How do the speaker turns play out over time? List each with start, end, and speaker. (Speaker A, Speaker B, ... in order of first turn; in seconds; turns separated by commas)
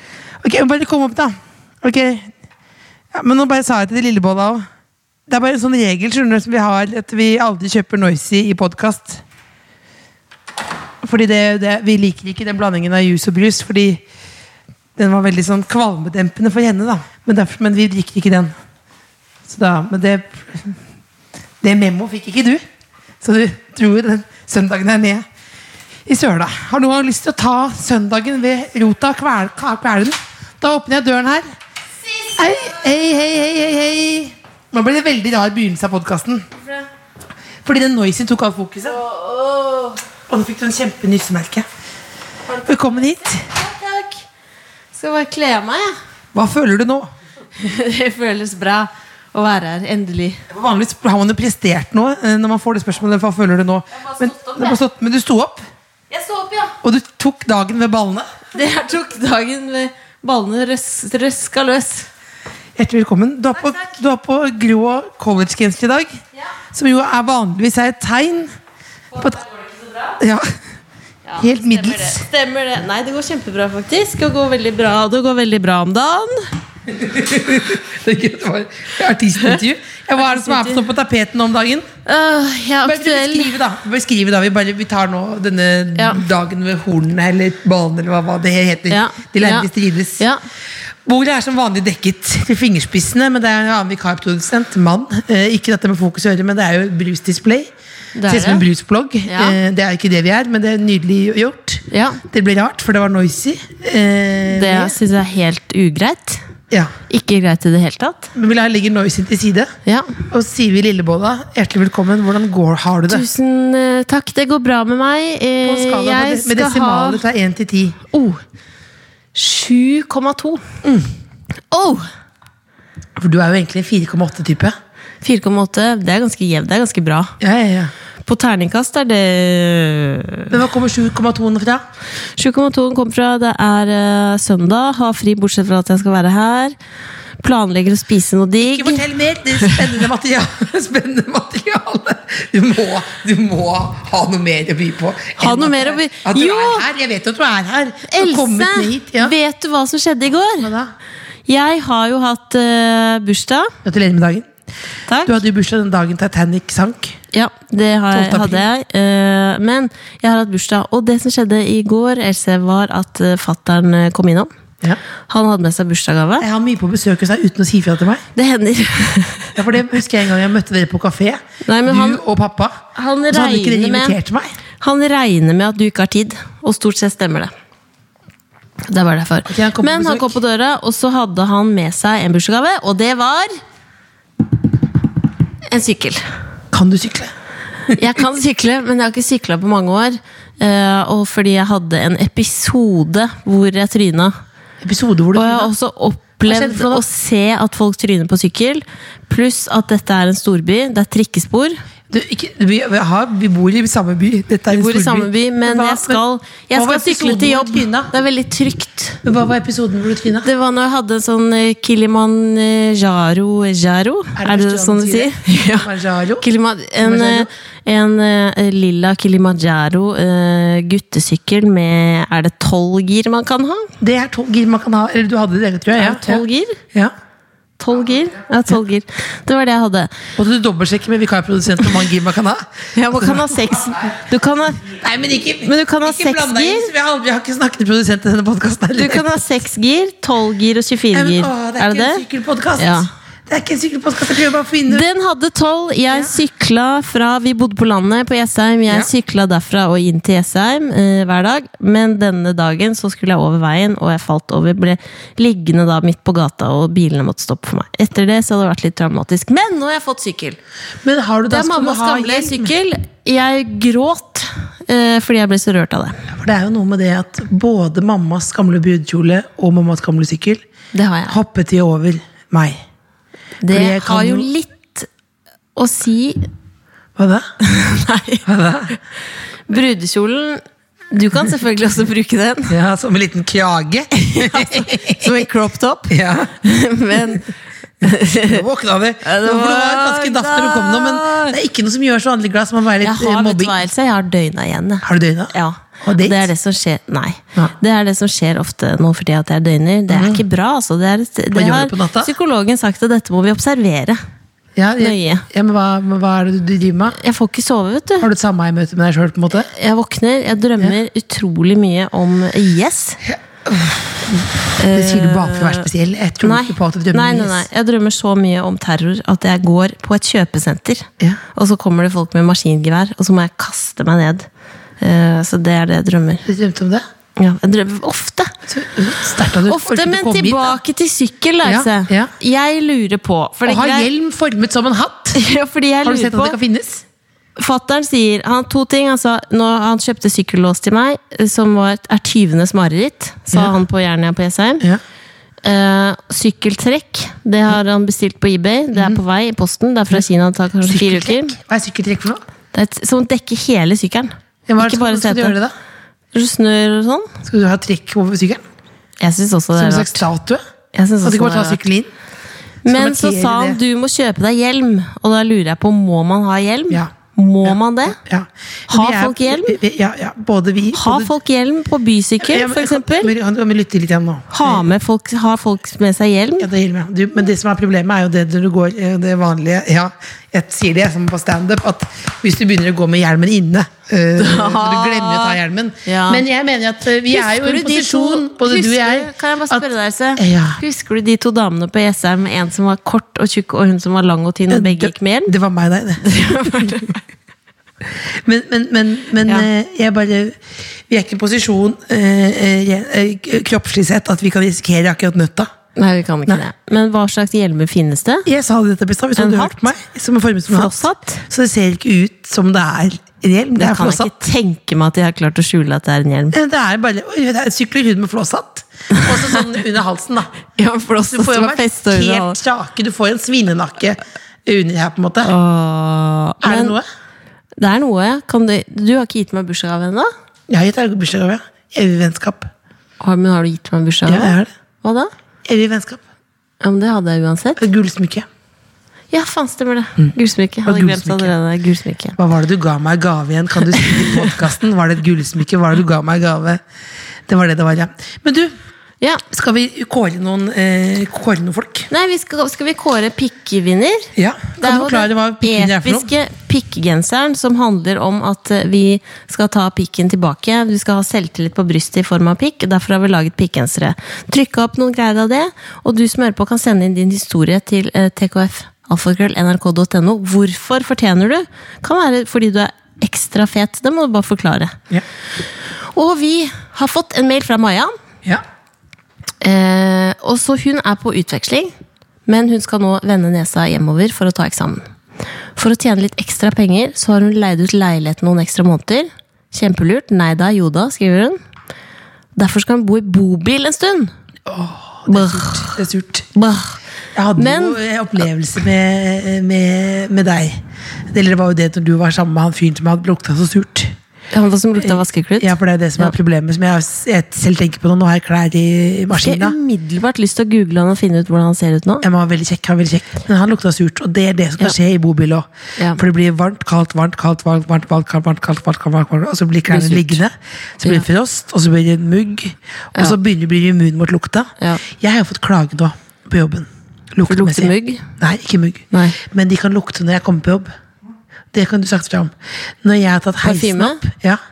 Speaker A: 0.4-2.3, Speaker A: 3.1-4.7, Speaker A: 5.3-9.2, Speaker A: 11.0-14.0, Speaker A: 14.9-18.5, Speaker A: 19.5-20.7, Speaker A: 21.6-22.6, Speaker A: 23.2-25.2, Speaker A: 26.1-31.4, Speaker B: 32.1-32.9, Speaker A: 32.4-36.5, Speaker A: 37.6-39.0, Speaker B: 38.8-40.0, Speaker A: 40.3-41.7, Speaker B: 42.5-44.2, Speaker A: 42.6-43.4, Speaker B: 44.9-45.9, Speaker A: 46.3-47.1, Speaker B: 47.6-50.4, Speaker A: 50.5-55.6, Speaker B: 53.9-54.8, Speaker B: 56.1-56.7, Speaker A: 56.8-58.3, Speaker B: 58.5-62.1, Speaker A: 62.8-66.1, Speaker B: 63.6-63.9, Speaker A: 66.7-68.5, Speaker B: 69.1-70.2, Speaker A: 70.2-70.5, Speaker B: 71.2-76.5, Speaker A: 71.4-72.2, Speaker A: 76.9-81.9, Speaker B: 80.2-80.8, Speaker B: 82.0-83.5, Speaker A: 82.8-90.2, Speaker B: 86.0-86.2, Speaker B: 88.9-89.7, Speaker A: 91.0-97.7, Speaker B: 98.2-98.6, Speaker A: 98.3-105.0, Speaker B: 99.3-99.6, Speaker B: 101.9-102.2, Speaker B: 104.5-106.4, Speaker B: 107.1-108.3, Speaker A: 108.3-109.7, Speaker B: 109.8-110.2, Speaker A: 110.3-113.2, Speaker B: 113.1-117.2, Speaker A: 115.6-118.0, Speaker B: 118.1-118.4, Speaker B: 119.3-120.6, Speaker A: 120.8-121.1, Speaker B: 121.7-122.1, Speaker A: 123.2-124.7, Speaker B: 125.2-127.3, Speaker A: 127.4-127.9, Speaker B: 128.2-130.6, Speaker A: 130.5-131.8, Speaker B: 132.4-136.7, Speaker B: 137.4-139.0, Speaker A: 138.6-149.3, Speaker B: 139.6-139.9, Speaker B: 145.4-146.8, Speaker B: 148.1-150.7, Speaker A: 150.6-150.9, Speaker B: 151.5-153.7, Speaker A: 153.8-154.5, Speaker B: 155.1-155.3, Speaker A: 155.2-157.2, Speaker B: 157.3-164.5, Speaker A: 158.1-158.6, Speaker B: 165.3-166.4, Speaker A: 166.4-168.2, Speaker B: 168.3-169.5, Speaker A: 169.5-174.5, Speaker B: 171.6-172.2, Speaker B: 172.9-174.2, Speaker B: 174.8-177.5, Speaker B: 178.9-183.6, Speaker A: 179.5-180.4, Speaker B: 185.7-186.2, Speaker A: 186.7-187.3, Speaker B: 187.9-194.3, Speaker A: 194.8-195.7, Speaker B: 195.3-201.8, Speaker A: 196.4-197.0, Speaker A: 202.1-208.1, Speaker B: 204.7-209.2, Speaker A: 209.2-210.5, Speaker B: 210.4-215.9, Speaker A: 214.3-216.4, Speaker B: 216.4-223.9, Speaker A: 217.0-217.5, Speaker A: 224.0-227.1, Speaker B: 226.0-226.8, Speaker B: 227.8-230.1, Speaker A: 230.4-233.7, Speaker B: 232.9-234.9, Speaker A: 234.9-239.3, Speaker B: 235.6-236.9, Speaker B: 238.9-242.2, Speaker A: 241.1-245.1, Speaker B: 242.8-243.1, Speaker B: 244.9-260.6, Speaker A: 246.1-246.3, Speaker A: 261.0-262.7, Speaker B: 261.5-266.3, Speaker A: 266.3-270.6, Speaker B: 270.9-271.4, Speaker A: 271.3-272.8, Speaker B: 273.6-275.1, Speaker A: 273.7-274.5, Speaker B: 275.8-276.5, Speaker A: 277.1-277.5, Speaker B: 277.6-278.9, Speaker A: 278.4-278.9, Speaker B: 279.7-282.8, Speaker A: 282.7-285.4, Speaker B: 284.2-288.6, Speaker A: 286.1-286.5, Speaker A: 288.4-293.8, Speaker B: 289.2-291.6, Speaker B: 293.0-304.2, Speaker A: 295.0-296.5, Speaker A: 300.1-300.4, Speaker A: 301.5-302.3, Speaker A: 304.8-307.2, Speaker B: 305.0-305.4, Speaker B: 307.1-308.3, Speaker A: 308.2-309.7, Speaker B: 309.7-313.2, Speaker A: 313.2-317.6, Speaker B: 314.8-315.9, Speaker B: 316.4-324.5, Speaker B: 325.0-326.4, Speaker A: 326.4-327.0, Speaker B: 327.4-328.5, Speaker A: 328.7-330.8, Speaker B: 329.7-334.1, Speaker A: 331.6-332.3, Speaker A: 333.6-335.4, Speaker B: 335.3-336.6, Speaker A: 336.0-337.0, Speaker B: 337.6-344.9, Speaker B: 345.6-351.6, Speaker A: 348.9-349.2, Speaker A: 350.8-352.4, Speaker B: 352.7-355.6, Speaker A: 354.7-355.7, Speaker B: 356.3-357.3, Speaker A: 357.4-358.6, Speaker B: 359.2-360.2, Speaker A: 359.7-360.6, Speaker B: 360.9-361.8, Speaker A: 361.2-362.1, Speaker B: 362.8-368.2, Speaker A: 362.9-363.8, Speaker A: 367.6-371.3, Speaker B: 368.9-369.8, Speaker B: 370.9-373.3, Speaker A: 372.4-374.9, Speaker B: 374.5-376.7, Speaker A: 376.6-390.8, Speaker B: 384.4-386.4, Speaker B: 387.3-395.5, Speaker A: 394.7-397.0, Speaker B: 396.2-397.2, Speaker A: 398.4-405.7, Speaker B: 405.9-408.5, Speaker A: 408.4-414.3, Speaker B: 409.4-409.9, Speaker B: 410.7-411.4, Speaker B: 413.8-416.6, Speaker A: 416.5-420.5, Speaker B: 420.8-422.6, Speaker A: 421.3-425.5, Speaker B: 425.4-426.9, Speaker A: 426.6-427.0, Speaker B: 427.8-430.3, Speaker A: 430.7-432.7, Speaker B: 433.2-435.3, Speaker A: 434.3-434.7, Speaker A: 435.6-436.2, Speaker B: 436.8-437.8, Speaker A: 437.8-438.5, Speaker B: 439.3-442.4, Speaker A: 440.2-441.5, Speaker A: 442.4-446.8, Speaker B: 444.0-444.3, Speaker A: 447.5-448.7, Speaker A: 449.5-452.1, Speaker B: 452.1-475.0, Speaker A: 454.4-456.3, Speaker B: 476.1-478.1, Speaker B: 479.6-481.9, Speaker B: 482.4-485.0, Speaker B: 485.8-491.6, Speaker B: 492.6-494.3, Speaker A: 494.6-496.5, Speaker B: 495.3-496.0, Speaker B: 496.5-497.0, Speaker A: 497.3-504.1, Speaker B: 497.6-498.0, Speaker B: 504.5-506.3, Speaker A: 505.0-509.7, Speaker B: 509.3-512.2, Speaker A: 512.2-530.9, Speaker B: 519.9-520.4, Speaker B: 527.5-528.2, Speaker B: 529.1-529.4, Speaker A: 531.7-534.6, Speaker B: 533.6-534.2